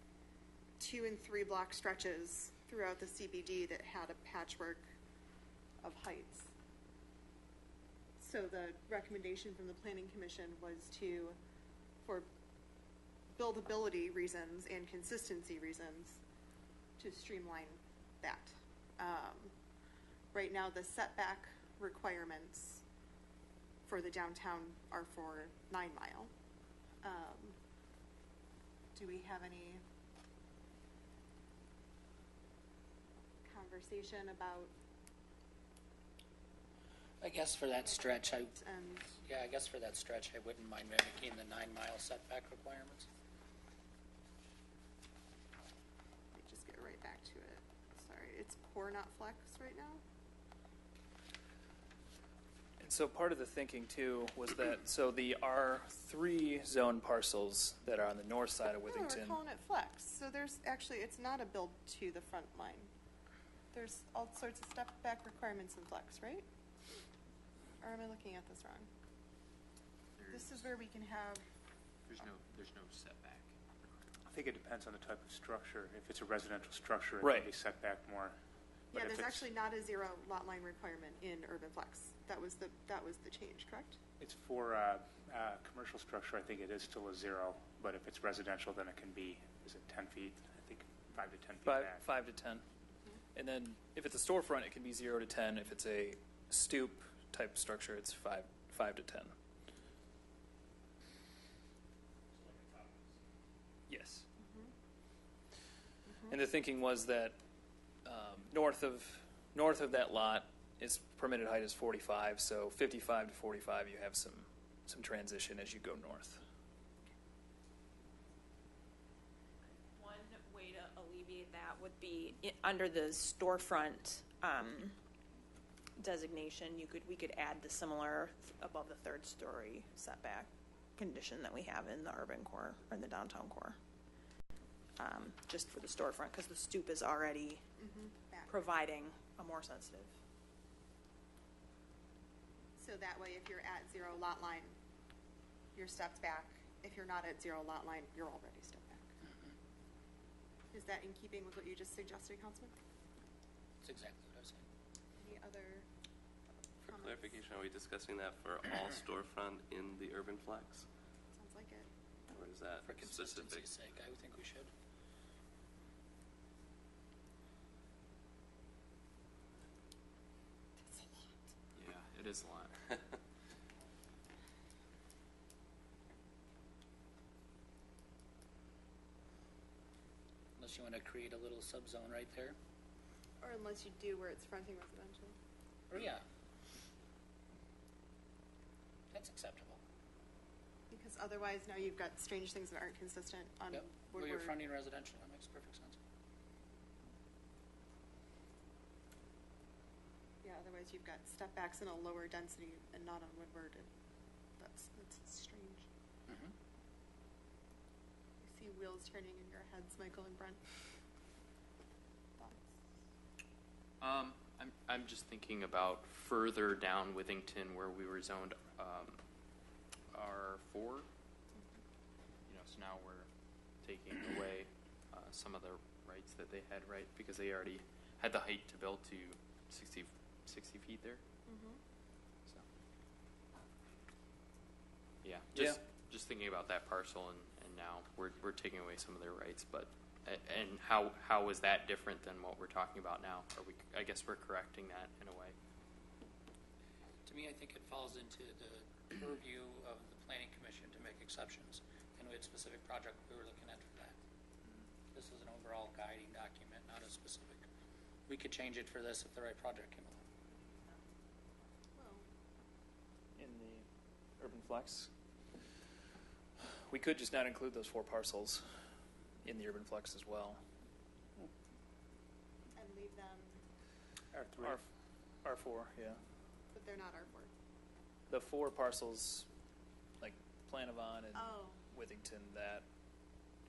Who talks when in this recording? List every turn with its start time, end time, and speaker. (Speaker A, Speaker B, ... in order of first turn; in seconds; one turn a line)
Speaker A: 0.8-4.8
Speaker A: 5.8-6.5
Speaker A: 8.2-11.4
Speaker A: 13.4-16.2
Speaker A: 17.0-19.5
Speaker A: 20.3-22.8
Speaker A: 23.9-26.3
Speaker A: 27.0-27.6
Speaker A: 28.9-29.8
Speaker A: 33.4-34.7
Speaker B: 37.2-38.5
Speaker A: 37.8-39.1
Speaker B: 39.2-43.1
Speaker A: 46.3-50.0
Speaker C: 52.8-59.4
Speaker A: 58.9-62.9
Speaker A: 63.7-66.4
Speaker A: 67.8-68.9
Speaker D: 70.2-70.6
Speaker A: 70.3-71.4
Speaker D: 72.1-73.5
Speaker E: 74.3-78.3
Speaker C: 77.2-77.5
Speaker A: 78.9-84.0
Speaker E: 78.9-79.5
Speaker E: 84.2-92.0
Speaker C: 91.7-92.6
Speaker C: 93.3-99.3
Speaker C: 103.9-104.2
Speaker A: 104.4-104.7
Speaker A: 106.1-106.3
Speaker C: 106.3-107.4
Speaker C: 108.0-116.4
Speaker F: 119.9-125.0
Speaker F: 126.0-133.8
Speaker F: 135.0-137.6
Speaker A: 137.8-138.5
Speaker F: 138.5-140.1
Speaker A: 142.8-144.8
Speaker A: 145.8-149.1
Speaker A: 150.7-152.7
Speaker B: 153.8-154.6
Speaker A: 155.2-155.8
Speaker G: 156.8-160.9
Speaker A: 156.8-157.4
Speaker A: 161.3-161.9
Speaker G: 162.3-163.8
Speaker B: 162.8-164.7
Speaker A: 170.9-171.3
Speaker D: 171.8-172.9
Speaker B: 180.6-182.6
Speaker A: 183.4-185.3
Speaker B: 185.9-186.2
Speaker B: 189.1-189.8
Speaker A: 190.9-194.6
Speaker B: 193.7-196.0
Speaker A: 200.4-203.9
Speaker A: 204.6-205.9
Speaker B: 206.3-206.5
Speaker A: 208.4-210.6
Speaker A: 212.4-212.8
Speaker D: 214.0-219.2
Speaker D: 220.1-221.1
Speaker D: 222.5-223.3
Speaker D: 223.8-231.2
Speaker A: 231.5-231.8
Speaker D: 235.2-245.5
Speaker B: 247.2-254.2
Speaker B: 255.1-257.6
Speaker B: 258.3-260.2
Speaker A: 262.0-262.2
Speaker C: 263.4-263.9
Speaker C: 264.4-265.1
Speaker C: 266.6-268.6
Speaker C: 269.4-270.6
Speaker A: 272.8-273.6
Speaker E: 274.3-274.8
Speaker C: 275.4-276.2
Speaker A: 276.7-277.5
Speaker C: 278.3-279.5
Speaker C: 280.2-282.9
Speaker A: 281.4-281.8